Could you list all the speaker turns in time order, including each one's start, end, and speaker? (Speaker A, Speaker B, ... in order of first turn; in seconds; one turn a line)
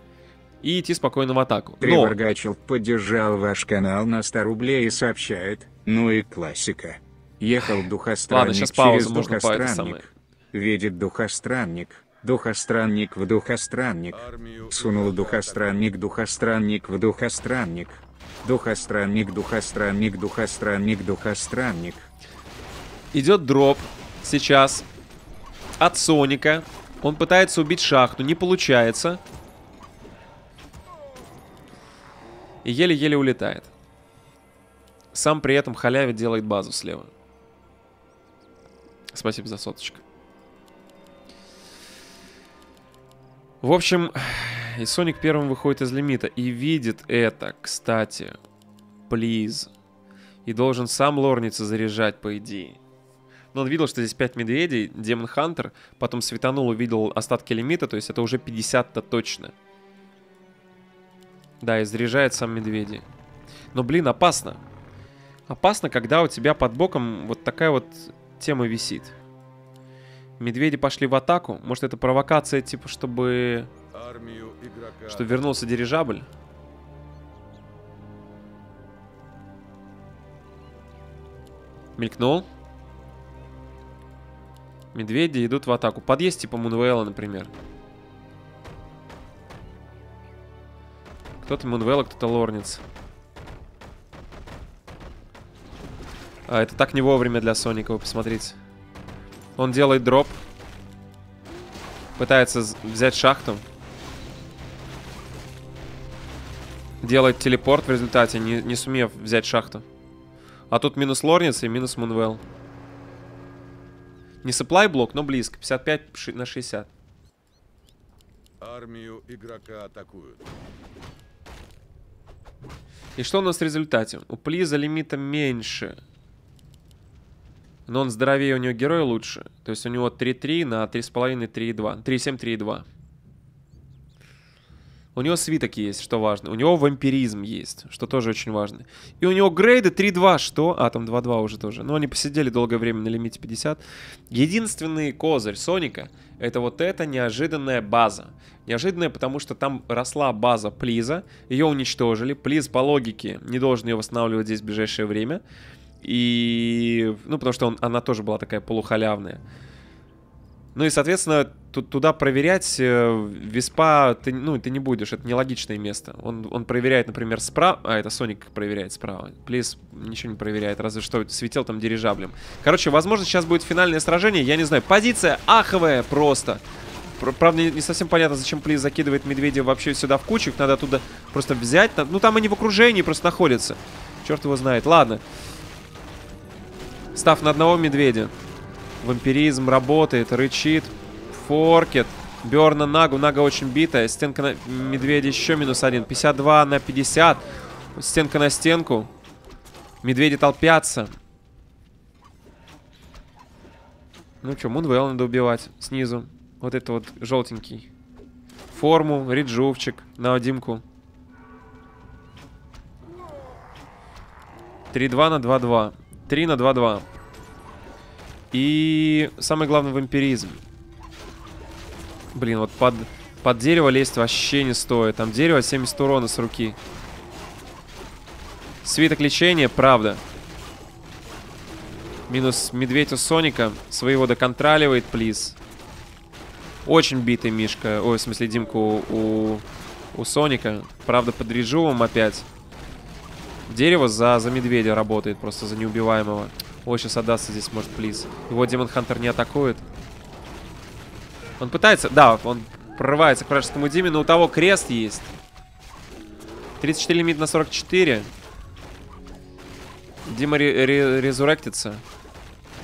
Speaker A: 0.6-2.2
Speaker B: 1.8-22.1
Speaker A: 8.3-10.1
Speaker C: 14.1-15.9
Speaker A: 23.1-24.9
Speaker A: 25.8-29.2
Speaker A: 32.6-33.7
Speaker A: 35.1-37.1
Speaker A: 39.1-40.0
Speaker A: 43.6-48.4
Speaker A: 49.1-49.7
Speaker A: 50.5-52.8
Speaker A: 53.5-59.5
Speaker A: 61.6-63.0
Speaker A: 63.7-64.6
Speaker A: 65.5-69.1
Speaker A: 70.4-73.7
Speaker C: 73.9-75.4
Speaker A: 75.1-76.3
Speaker A: 82.0-82.5
Speaker A: 84.9-87.5
Speaker A: 91.4-92.8
Speaker A: 96.5-98.6
Speaker A: 99.6-100.4
Speaker A: 102.2-103.7
Speaker A: 107.0-109.8
Speaker A: 110.7-112.4
Speaker A: 114.4-116.9
Speaker C: 118.6-120.5
Speaker A: 123.2-126.0
Speaker A: 127.9-132.8
Speaker A: 135.2-155.4
Speaker A: 156.0-159.4
Speaker A: 160.8-176.6
Speaker A: 177.2-185.2
Speaker A: 187.2-188.3
Speaker A: 189.0-199.1
Speaker C: 194.9-196.3
Speaker A: 200.0-201.2
Speaker A: 204.4-207.9
Speaker A: 208.7-210.8
Speaker A: 214.9-217.1
Speaker A: 218.5-220.6
Speaker A: 222.3-226.8
Speaker A: 228.8-230.2
Speaker A: 232.3-235.6
Speaker A: 236.9-242.5
Speaker A: 243.7-249.8
Speaker A: 251.6-255.3
Speaker A: 256.8-258.3
Speaker A: 260.2-262.0